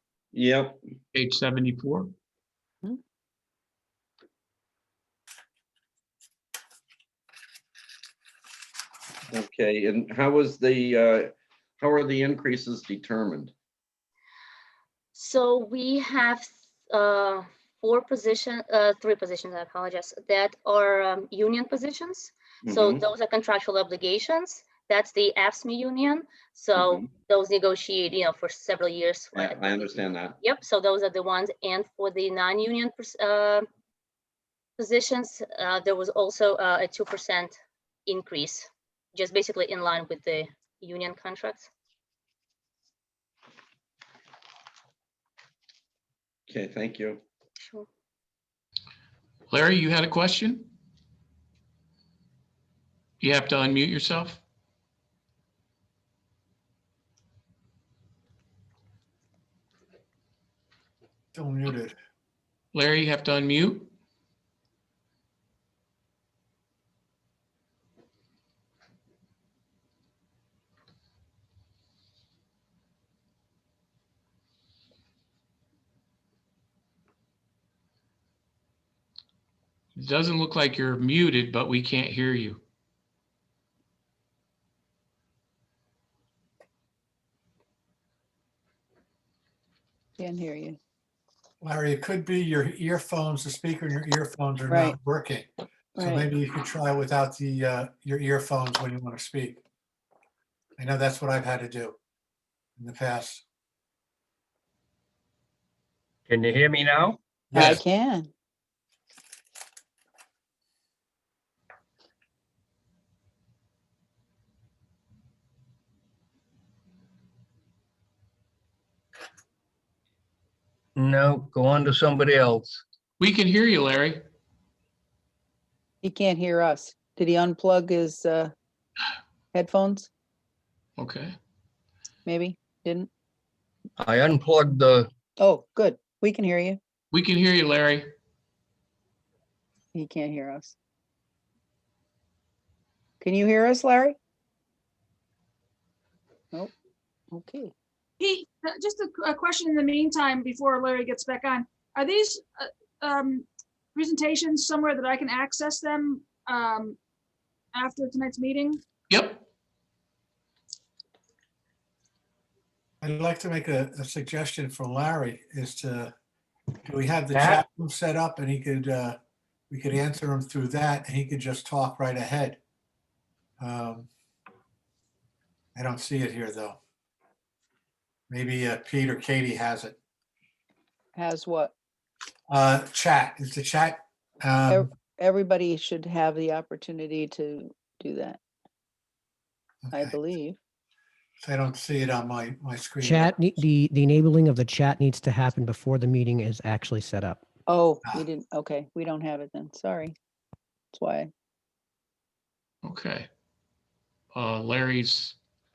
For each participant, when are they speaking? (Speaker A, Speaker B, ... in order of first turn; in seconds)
Speaker A: 0.3-0.8, 9.3-13.5, 22.6-23.0, 26.8-27.1, 29.4-30.4, 46.5-47.2
Speaker B: 1.1-2.1, 49.5-50.7, 53.2-54.4, 62.7-63.9, 80.0-82.6, 123.2-124.3, 131.0-131.3, 137.1-138.1, 159.1-159.4, 202.8-203.3, 204.3-205.4
Speaker C: 15.2-33.7, 34.8-41.7, 47.6-47.9
Speaker D: 61.3-62.0, 91.6-99.6, 100.8-102.0, 102.8-103.4, 107.5-107.8, 163.0-166.1, 166.8-169.2, 169.7-172.6, 173.6-174.1, 175.8-176.8, 178.3-180.0, 182.5-184.9, 189.9-190.2, 191.4-193.6
Speaker E: 90.2-90.8, 94.7-95.0, 96.0-96.3, 107.7-108.3, 126.0-128.5, 129.5-130.1, 132.3-133.1, 135.4-136.8, 139.9-140.8, 143.2-144.2, 147.3-147.7, 181.2-181.7, 184.7-188.4, 189.9-190.6, 197.7-200.2, 200.9-201.3
Speaker F: 106.3-107.8, 121.0-122.8, 134.0-135.1, 167.3-167.6
Speaker G: 148.2-157.0, 157.7-158.8
Speaker H: 193.0-197.4